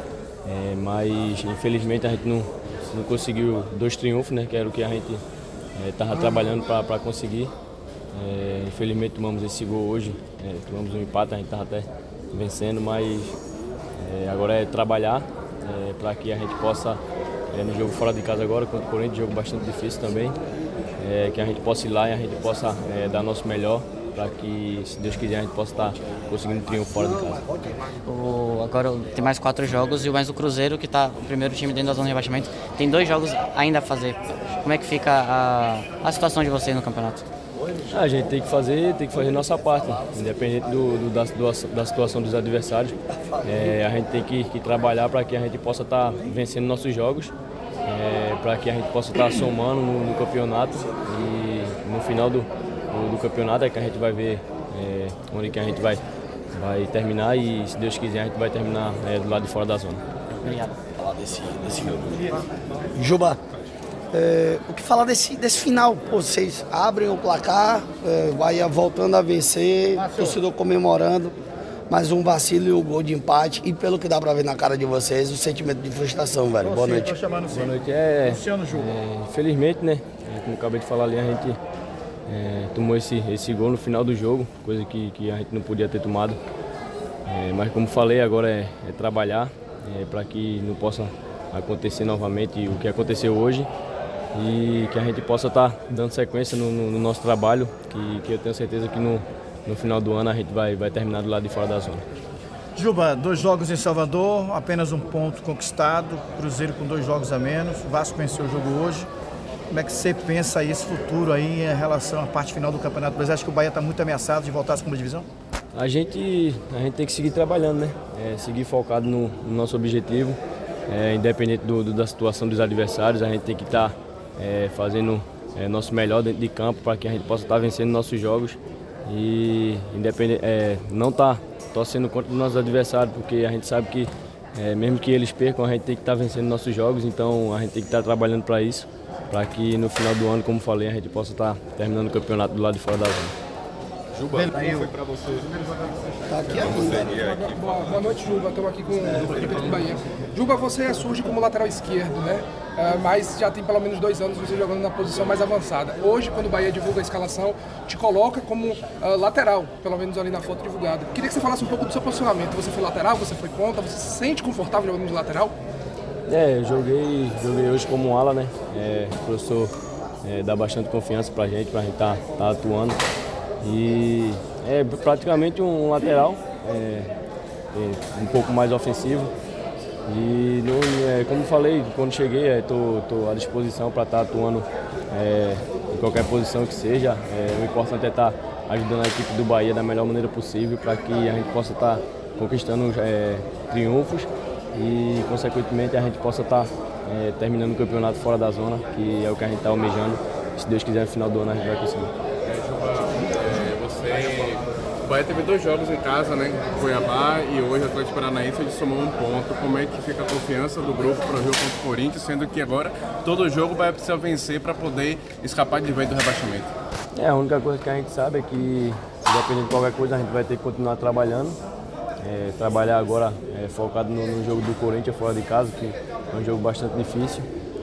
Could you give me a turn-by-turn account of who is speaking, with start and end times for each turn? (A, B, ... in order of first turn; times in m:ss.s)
0:00.4-0:05.2 A
0:05.8-0:07.5 A
0:08.1-0:13.4 A
0:14.0-0:17.0 A
0:17.5-0:20.4 A
0:21.0-0:27.5 A
0:28.0-0:37.2 B
0:37.9-0:47.3 A
0:47.8-0:56.0 A
0:56.5-1:00.0 A
1:00.4-1:00.7 B
1:00.9-1:03.4 C
1:04.1-1:11.3 C
1:10.0-1:10.4 D
1:11.9-1:17.2 C
1:16.6-1:17.7 D
1:17.5-1:21.6 A
1:18.2-1:18.9 D
1:22.3-1:26.4 A
1:27.3-1:33.7 A
1:34.3-1:42.0 A
1:42.8-1:49.1 D
1:49.7-1:55.3 D
1:55.7-2:23.3 A
2:24.3-2:24.8 D
2:26.3-2:27.2 C
2:27.1-2:45.5 E
2:46.3-2:49.7 A
2:50.2-2:53.0 A
2:53.6-2:57.1 A
2:57.7-2:59.3 A
3:00.0-3:22.1 A
3:22.4-3:24.6 F
3:25.1-3:36.7 F
3:37.1-3:41.6 A
3:42.2-3:47.5 A